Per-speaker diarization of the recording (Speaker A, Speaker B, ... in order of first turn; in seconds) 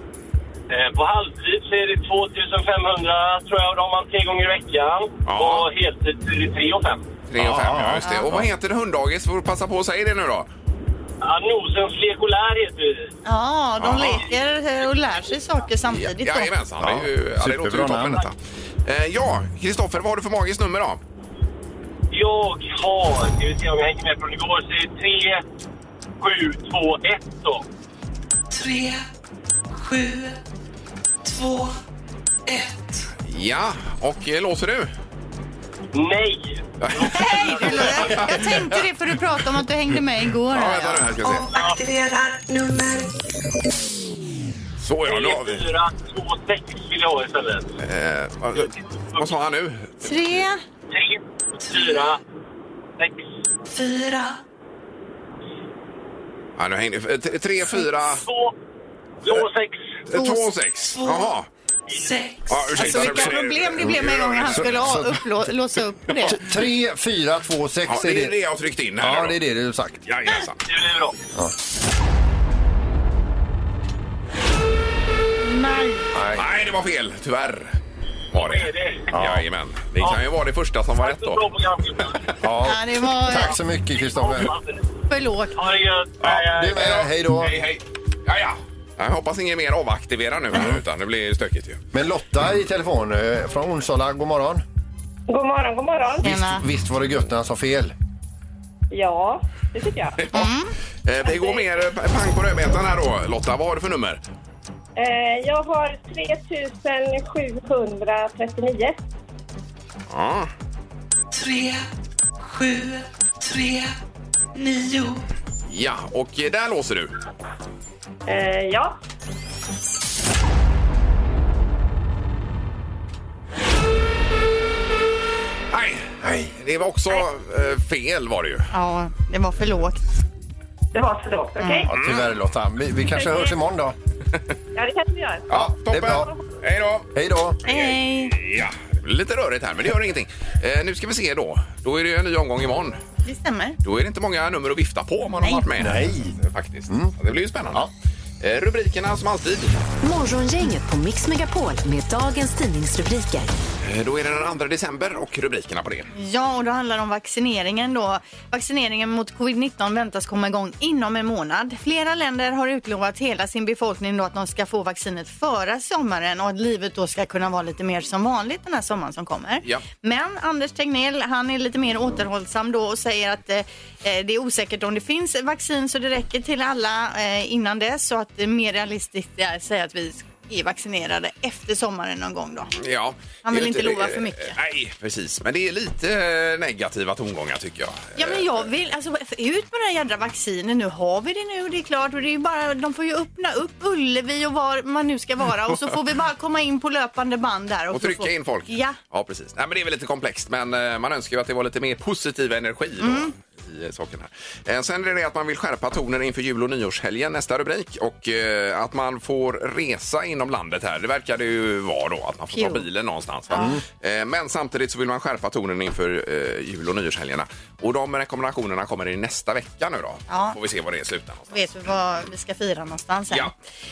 Speaker A: 0.7-7.1, 11.2-13.1, 22.1-25.4, 26.2-27.6, 35.9-38.2, 41.5-41.8, 45.0-47.8, 48.6-49.3, 50.9-52.2, 53.0-53.2, 58.0-58.5, 59.2-60.0, 70.7-71.2, 78.3-79.1, 81.0-82.3, 84.0-84.9, 85.6-87.0
Speaker B: 5.3-5.7, 7.3-10.5, 13.8-14.2, 15.9-21.0, 33.2-34.9, 36.8-38.8, 40.5-41.5, 44.8-45.7, 47.8-50.1, 56.6-58.2, 60.1-61.5, 62.5-64.9, 67.9-69.4, 70.1-70.6, 76.3-77.8, 78.3-81.4, 86.7-91.8, 100.2-100.5, 101.1-104.2, 110.1-110.5, 115.7-117.1, 125.7-128.7, 131.9-132.3, 135.5-137.1, 137.7-143.0, 143.8-147.9, 148.4-149.8, 153.8-156.1, 182.8-188.5, 197.9-221.7
Speaker C: 7.4-8.5, 16.8-18.3, 63.8-65.2, 66.2-68.4, 69.0-70.1, 76.1-76.5, 79.1-79.5, 82.4-84.5, 86.2-87.5, 90.5-90.8, 91.9-94.6, 96.2-97.9, 126.2-126.5, 131.9-133.9, 135.5-136.3, 137.1-137.6, 145.8-146.4, 146.9-147.2
Speaker D: 13.2-16.5, 37.0-41.1, 50.0-50.6, 60.1-60.5, 62.8-66.4, 75.4-76.1, 82.7-83.5, 85.1-85.6, 96.2-96.7, 100.3-100.7, 128.7-130.0, 131.6-131.9, 137.7-138.3, 143.2-143.8, 156.1-182.7, 183.4-184.6, 188.2-199.0, 203.0-203.3, 212.5-212.8, 220.3-220.6, 221.5-223.5
Speaker E: 28.5-29.0, 29.7-30.4, 31.2-31.8, 32.5-33.1, 41.2-43.1, 53.7-54.4, 60.9-61.3, 62.0-62.8, 111.3-111.9, 112.4-114.0, 114.5-115.2
Speaker F: 95.3-96.5, 98.9-100.2, 101.3-101.6, 105.0-109.0, 118.3-119.0, 130.9-131.9, 133.1-133.6, 134.8-135.5
Speaker G: 150.0-153.5